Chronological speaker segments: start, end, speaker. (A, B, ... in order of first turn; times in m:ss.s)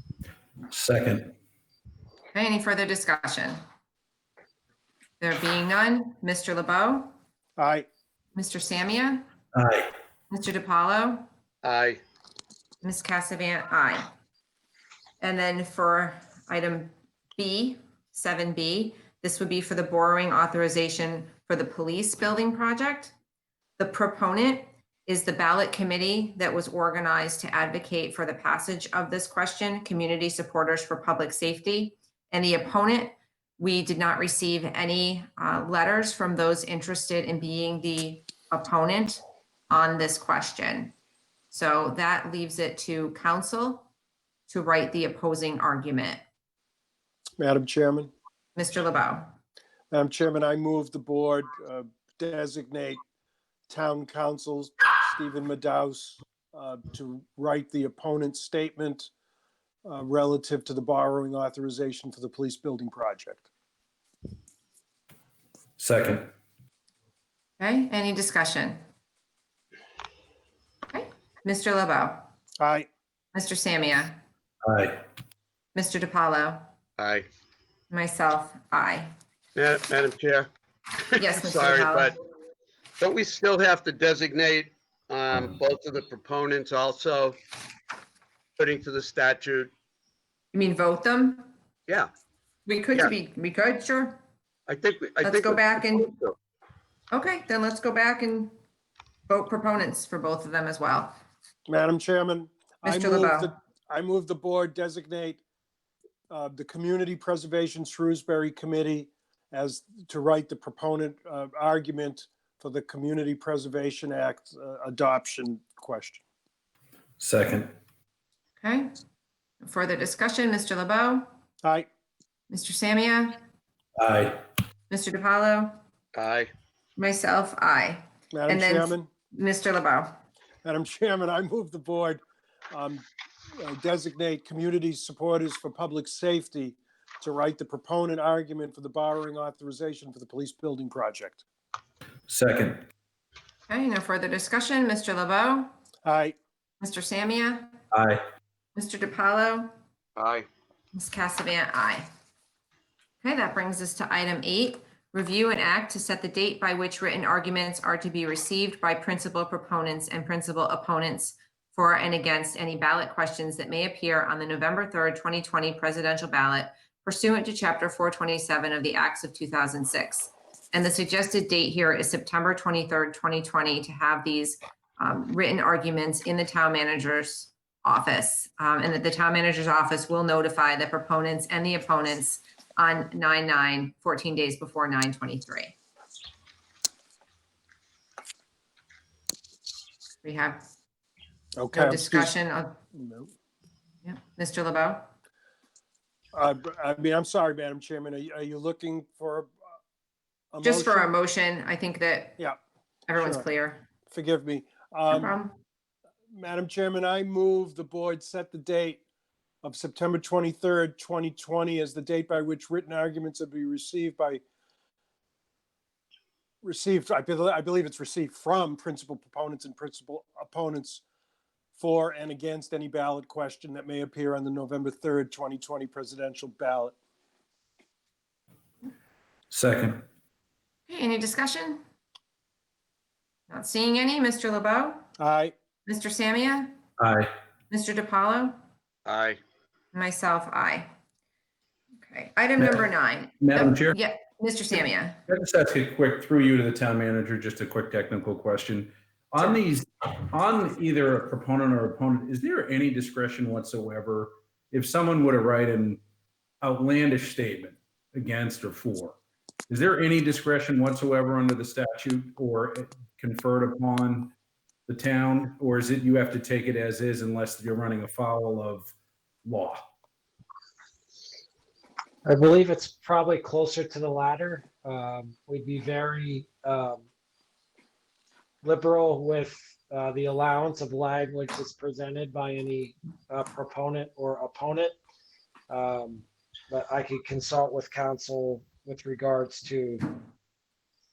0:00.7-0:01.3 A
0:02.3-0:03.6 B
0:05.2-0:07.1 B
0:07.6-0:07.9 C
0:08.4-0:09.2 B
0:09.5-0:09.9 A
0:10.3-0:11.3 B
0:11.6-0:12.0 D
0:12.8-0:14.1 B
0:15.2-0:23.1 B
0:23.8-0:40.9 B
0:41.5-0:43.9 B
0:44.5-0:46.2 B
0:47.4-0:48.1 C
0:48.6-0:49.3 B
0:49.9-0:53.0 C
0:53.7-0:59.1 C
0:59.9-1:03.5 C
1:05.8-1:06.3 A
1:07.6-1:08.8 B
1:10.9-1:12.3 B
1:12.6-1:12.9 C
1:13.3-1:14.2 B
1:14.6-1:15.0 A
1:15.8-1:16.7 B
1:17.0-1:17.3 D
1:17.9-1:19.1 B
1:19.6-1:22.2 D
1:21.2-1:22.1 B
1:23.0-1:27.4 D
1:28.6-1:29.7 D
1:30.5-1:31.5 B
1:32.7-1:34.2 B
1:34.7-1:36.4 D
1:35.2-1:36.1 B
1:37.1-1:38.5 B
1:39.3-1:41.2 B
1:41.7-1:45.4 C
1:42.8-1:43.5 B
1:46.3-1:56.2 C
1:57.2-1:57.7 A
1:58.6-1:58.9 B
1:59.6-2:01.3 B
2:02.5-2:03.4 B
2:04.0-2:04.4 A
2:04.9-2:05.8 B
2:06.2-2:06.5 D
2:07.0-2:10.2 B
2:08.3-2:09.1 C
2:10.6-2:21.4 C
2:22.3-2:22.8 A
2:23.7-2:25.7 B
2:26.0-2:26.4 C
2:26.8-2:27.8 B
2:27.9-2:28.2 A
2:28.8-2:29.7 B
2:30.2-2:30.5 D
2:30.9-2:32.1 B
2:33.2-3:05.7 B
3:10.2-3:10.6 B
3:11.6-3:12.3 C
3:11.7-3:12.8 B
3:12.9-3:13.3 C
3:14.0-3:15.1 B
3:16.4-3:19.5 C
3:20.5-3:21.1 C
3:20.6-3:22.4 B
3:23.1-3:23.8 B
3:23.2-3:23.4 C
3:24.1-3:25.3 C
3:25.1-3:25.6 B
3:26.3-3:29.0 C
3:29.6-3:34.4 C
3:36.6-3:41.0 C
3:41.8-3:47.0 C
3:49.5-3:50.0 A
3:50.9-3:51.8 B
3:53.5-3:55.0 B
3:55.2-3:55.5 C
3:55.9-3:56.8 B
3:57.0-3:57.3 A
3:57.7-3:58.6 B
3:59.1-3:59.4 D
3:59.9-4:00.9 B
4:02.0-4:05.2 B
4:02.6-4:02.9 A
4:03.4-4:04.0 A
4:05.3-4:16.0 A
4:16.6-4:19.2 A
4:19.7-4:24.3 A
4:24.9-4:28.9 A
4:29.4-4:29.9 A
4:32.2-4:37.0 E
4:38.6-4:45.0 E
4:45.7-4:50.2 E